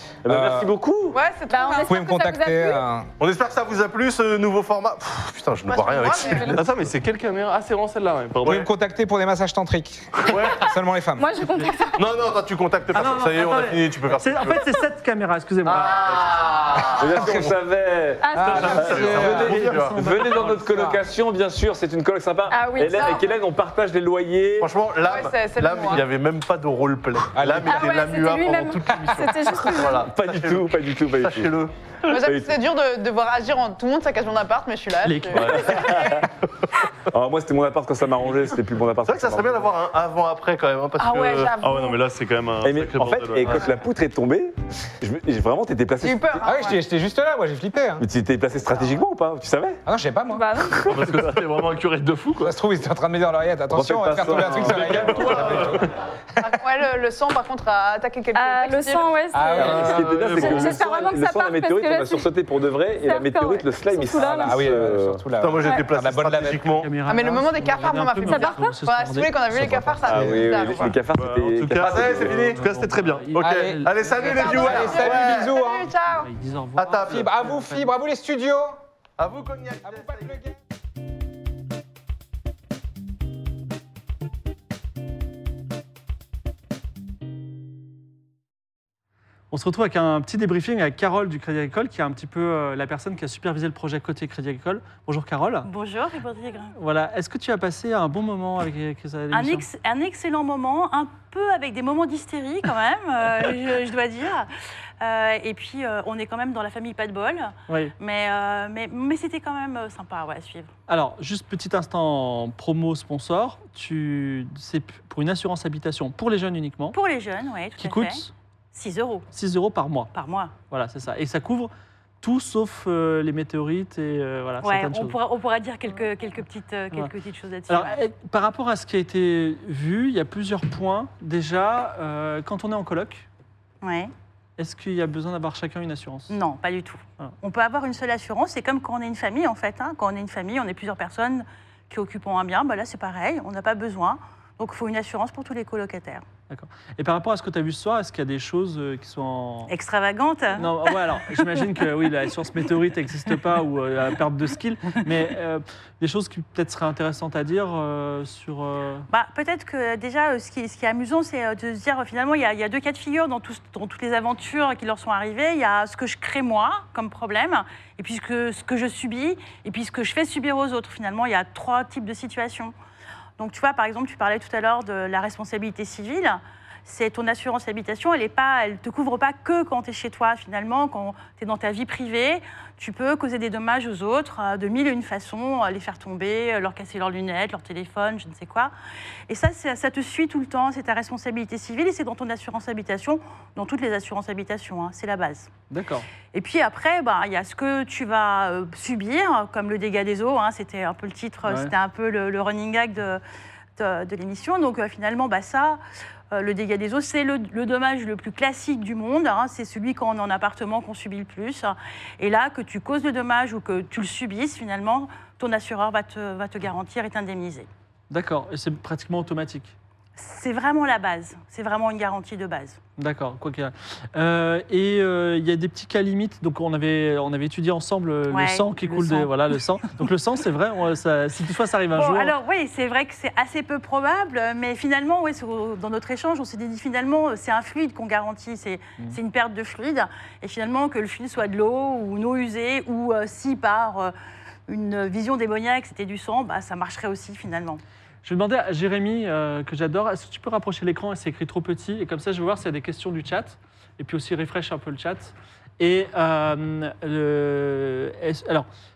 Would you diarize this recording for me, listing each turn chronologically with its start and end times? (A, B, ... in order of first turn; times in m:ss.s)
0:00.2-0:01.2 A
0:00.2-0:00.7 B
0:01.1-0:02.0 C
0:01.5-0:02.8 D
0:01.8-0:03.1 B
0:03.2-0:06.9 E
0:05.7-0:06.6 C
0:06.5-0:08.7 F
0:08.4-0:11.3 B
0:10.3-0:10.7 E
0:11.2-0:12.0 D
0:12.0-0:14.7 E
0:12.9-0:16.1 G
0:15.6-0:17.6 E
0:16.9-0:24.7 A
0:18.2-0:18.8 D
0:18.3-0:19.6 B
0:18.5-0:20.0 E
0:19.3-0:20.6 G
0:20.5-0:21.0 B
0:22.5-0:23.1 D
0:22.9-0:23.3 C
0:24.6-0:31.7 E
0:25.0-0:26.1 C
0:27.3-0:28.1 B
0:27.6-0:30.1 D
0:30.0-0:31.5 A
0:32.1-0:32.6 A
0:32.1-0:36.2 C
0:35.0-0:35.9 G
0:35.4-0:36.2 E
0:35.6-0:36.3 A
0:37.1-0:39.7 A
0:39.1-0:41.5 E
0:41.0-0:42.0 C
0:41.6-0:43.7 F
0:42.6-0:46.4 A
0:46.0-0:46.8 C
0:46.4-0:48.0 B
0:48.0-0:49.8 A
0:49.9-0:50.5 B
0:50.3-0:50.9 D
0:50.9-0:52.5 F
0:50.9-0:51.4 A
0:50.9-0:51.8 E
0:52.4-0:55.8 B
0:53.7-0:55.8 A
0:54.3-0:55.9 F
0:56.4-0:59.1 C
0:58.3-1:02.3 D
0:59.3-1:00.1 B
0:59.6-1:05.2 A
0:59.7-1:00.7 E
1:03.0-1:04.7 D
1:04.4-1:06.7 B
1:05.4-1:06.9 E
1:06.8-1:10.2 G
1:07.0-1:10.9 C
1:08.2-1:08.7 D
1:10.0-1:12.5 A
1:11.1-1:13.3 F
1:11.7-1:12.7 E
1:12.3-1:14.3 G
1:13.4-1:15.5 E
1:13.4-1:15.9 B
1:14.2-1:16.3 C
1:16.2-1:17.9 G
1:16.8-1:17.4 E
1:17.0-1:18.8 B
1:19.2-1:20.4 E
1:19.8-1:20.6 B
1:29.5-1:35.7 G
1:35.6-1:36.7 H
1:36.8-1:39.6 G
1:39.3-1:44.5 H
1:45.0-1:50.7 H
1:47.7-1:47.9 G
1:50.9-1:57.0 G
1:56.9-1:59.3 H
1:57.8-1:58.3 G
1:59.3-2:01.7 G
2:00.1-2:00.6 H
2:02.2-2:05.2 G
2:04.6-2:08.0 H
2:07.7-2:13.3 G
2:13.8-2:14.1 H
2:14.6-2:16.3 G
2:16.3-2:26.2 H
2:26.5-2:29.7 G
2:29.7-2:31.0 H
2:30.5-2:39.1 G
2:39.1-2:52.7 H
2:53.4-3:08.7 H
3:09.3-3:15.5 H
3:15.7-3:16.1 G
3:16.3-3:23.2 H
3:21.4-3:21.7 G
3:23.8-3:25.8 H
3:26.3-3:37.7 H
3:38.1-3:39.8 G
3:40.2-3:42.8 H
3:43.0-3:52.3 G
3:48.3-3:49.3 H
3:51.9-4:04.1 H
4:04.7-4:07.8 H
4:08.2-4:18.7 G